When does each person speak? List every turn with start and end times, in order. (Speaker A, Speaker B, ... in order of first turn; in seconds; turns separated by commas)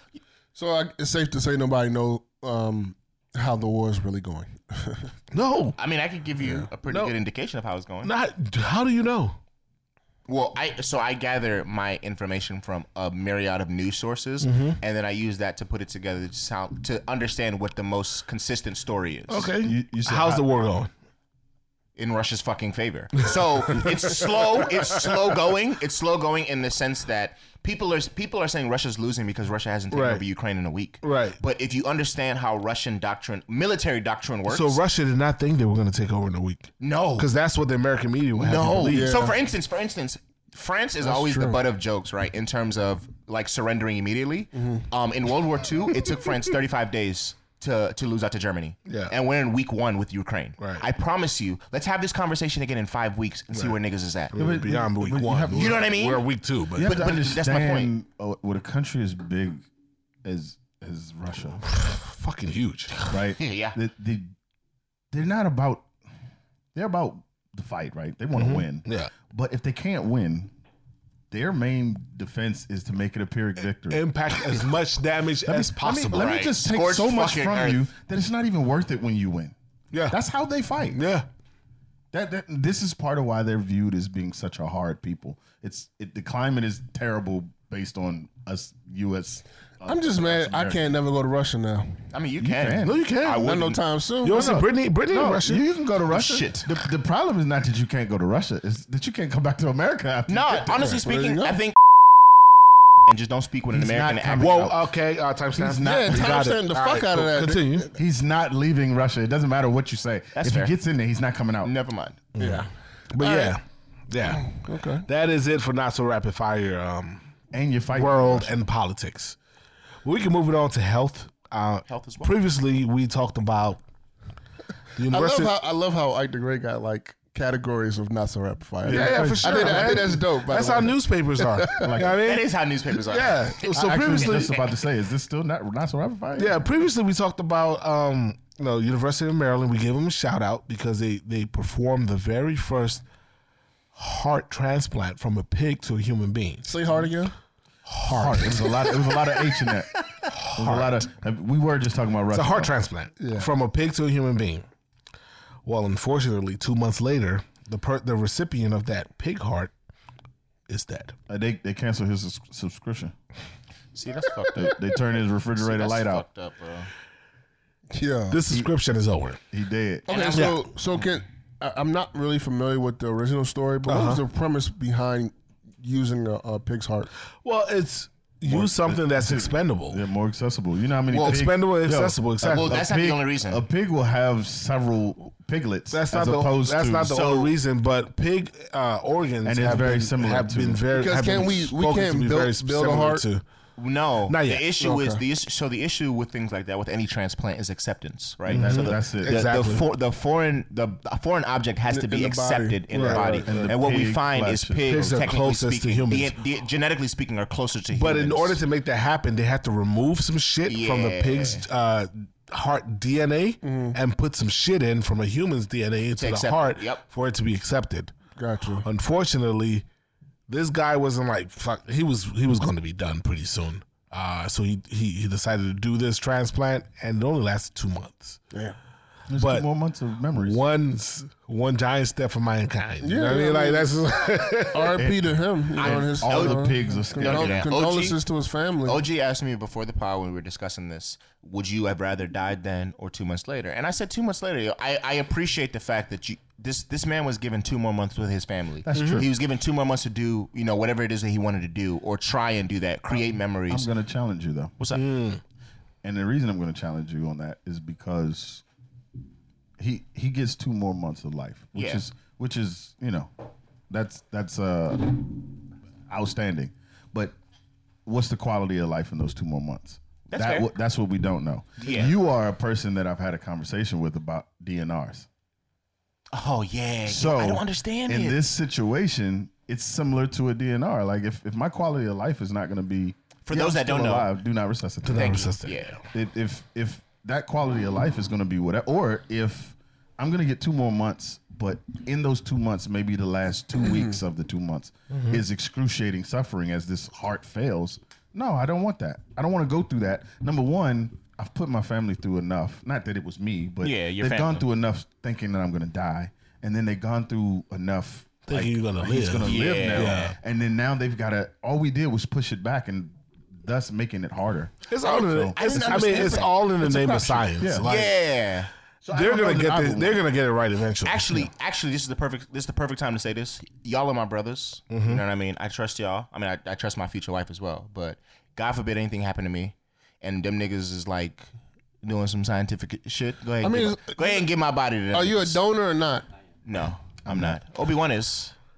Speaker A: 0.6-5.1, Speaker B: 5.3-5.8, Speaker C: 5.8-8.1, Speaker B: 6.9-7.1, Speaker B: 8.0-9.4, Speaker C: 10.3-19.5, Speaker B: 14.4-14.8, Speaker B: 19.3-20.9, Speaker D: 19.5-20.4, Speaker C: 21.9-34.8, Speaker B: 29.9-30.2, Speaker B: 31.0-31.4, Speaker B: 34.5-39.3, Speaker C: 36.8-37.3, Speaker C: 38.4-54.4, Speaker A: 38.9-39.3, Speaker A: 41.0-41.6, Speaker A: 44.5-44.8, Speaker B: 48.9-49.1, Speaker B: 50.6-50.8, Speaker B: 54.3-57.0, Speaker D: 54.3-55.8, Speaker C: 55.4-56.3, Speaker D: 56.8-59.6, Speaker C: 56.8-57.9, Speaker D: 60.2-61.7, Speaker B: 61.7-62.9, Speaker D: 63.1-64.3, Speaker C: 63.4-63.8, Speaker D: 65.1-65.9, Speaker D: 66.7-70.5, Speaker B: 68.3-69.1, Speaker D: 71.3-74.0, Speaker B: 73.9-76.4, Speaker D: 75.5-79.5, Speaker C: 76.1-77.9, Speaker B: 79.9-80.2, Speaker D: 80.1-81.0, Speaker B: 80.9-81.3, Speaker D: 82.1-91.0, Speaker A: 89.9-92.0, Speaker C: 92.1-93.8, Speaker D: 92.4-93.0, Speaker B: 92.8-93.5, Speaker A: 93.4-94.6, Speaker B: 94.2-95.6, Speaker D: 94.3-100.9, Speaker C: 96.1-96.7, Speaker C: 100.3-101.8, Speaker A: 101.0-101.6, Speaker C: 103.0-104.7, Speaker D: 103.7-104.8, Speaker B: 104.3-107.9, Speaker D: 105.5-106.5, Speaker A: 105.8-108.0, Speaker D: 108.0-111.7, Speaker C: 110.3-110.7, Speaker C: 111.6-112.2, Speaker B: 112.4-117.2, Speaker A: 112.4-113.6, Speaker A: 114.4-115.0, Speaker D: 117.5-118.5, Speaker B: 117.9-119.4, Speaker B: 120.0-123.8, Speaker C: 121.9-122.3, Speaker B: 125.0-125.5, Speaker A: 125.1-131.9, Speaker D: 128.8-130.1, Speaker B: 128.9-134.6, Speaker D: 131.8-132.2, Speaker C: 132.1-134.8, Speaker D: 133.7-136.6, Speaker B: 136.3-143.0, Speaker B: 143.9-146.7, Speaker A: 146.6-147.3, Speaker B: 147.9-148.7, Speaker D: 148.0-150.0, Speaker B: 150.4-151.0, Speaker D: 150.5-152.7, Speaker B: 152.3-154.7, Speaker A: 153.2-153.5, Speaker B: 155.6-159.7, Speaker B: 160.7-161.1, Speaker D: 161.3-163.1, Speaker C: 163.9-164.9, Speaker D: 164.5-166.2, Speaker C: 165.6-166.9, Speaker A: 167.9-168.4, Speaker B: 168.3-169.4, Speaker D: 169.5-170.1, Speaker C: 170.1-170.6, Speaker A: 170.1-177.1, Speaker B: 173.9-174.2, Speaker B: 177.4-180.0, Speaker D: 178.4-187.5, Speaker C: 181.1-181.4, Speaker B: 181.1-182.8, Speaker C: 182.4-183.6, Speaker B: 185.9-193.4, Speaker D: 189.4-190.8, Speaker A: 190.9-193.2, Speaker C: 193.8-208.6, Speaker B: 194.3-194.7, Speaker A: 194.8-195.2, Speaker D: 198.5-199.4, Speaker B: 198.5-199.9, Speaker A: 201.9-203.6, Speaker B: 202.9-203.7, Speaker D: 203.4-205.3, Speaker B: 204.9-206.3, Speaker B: 207.9-218.1, Speaker C: 210.7-211.6, Speaker A: 213.6-214.0, Speaker C: 216.2-217.0, Speaker A: 218.4-218.9, Speaker B: 218.8-219.8, Speaker B: 220.5-228.4, Speaker D: 229.3-230.6, Speaker B: 229.4-229.7, Speaker B: 230.3-235.0, Speaker A: 233.0-234.0, Speaker A: 234.7-239.0, Speaker D: 234.9-237.6, Speaker C: 235.8-238.2, Speaker C: 238.8-253.9, Speaker D: 248.8-249.3, Speaker B: 248.9-249.3, Speaker D: 253.1-254.7, Speaker C: 254.8-255.1, Speaker B: 254.9-255.4, Speaker D: 256.0-258.6, Speaker D: 259.8-263.3, Speaker C: 261.7-262.0, Speaker D: 263.9-265.5, Speaker D: 266.1-267.4, Speaker D: 268.1-275.3, Speaker C: 270.3-270.7, Speaker C: 271.8-272.1, Speaker C: 276.3-278.4, Speaker D: 277.1-285.6, Speaker C: 283.4-284.3, Speaker B: 285.0-286.0, Speaker C: 285.1-286.0, Speaker D: 286.1-316.5, Speaker B: 295.1-295.4, Speaker C: 303.8-304.6, Speaker B: 308.5-310.3, Speaker C: 309.4-310.3, Speaker B: 314.9-318.1, Speaker C: 315.1-318.7, Speaker D: 317.6-317.9, Speaker D: 319.0-320.2, Speaker B: 319.1-321.5, Speaker C: 321.0-331.4, Speaker B: 324.9-325.2, Speaker C: 332.0-335.6, Speaker A: 333.6-334.4, Speaker A: 335.1-336.3, Speaker C: 336.6-338.5, Speaker D: 337.3-337.6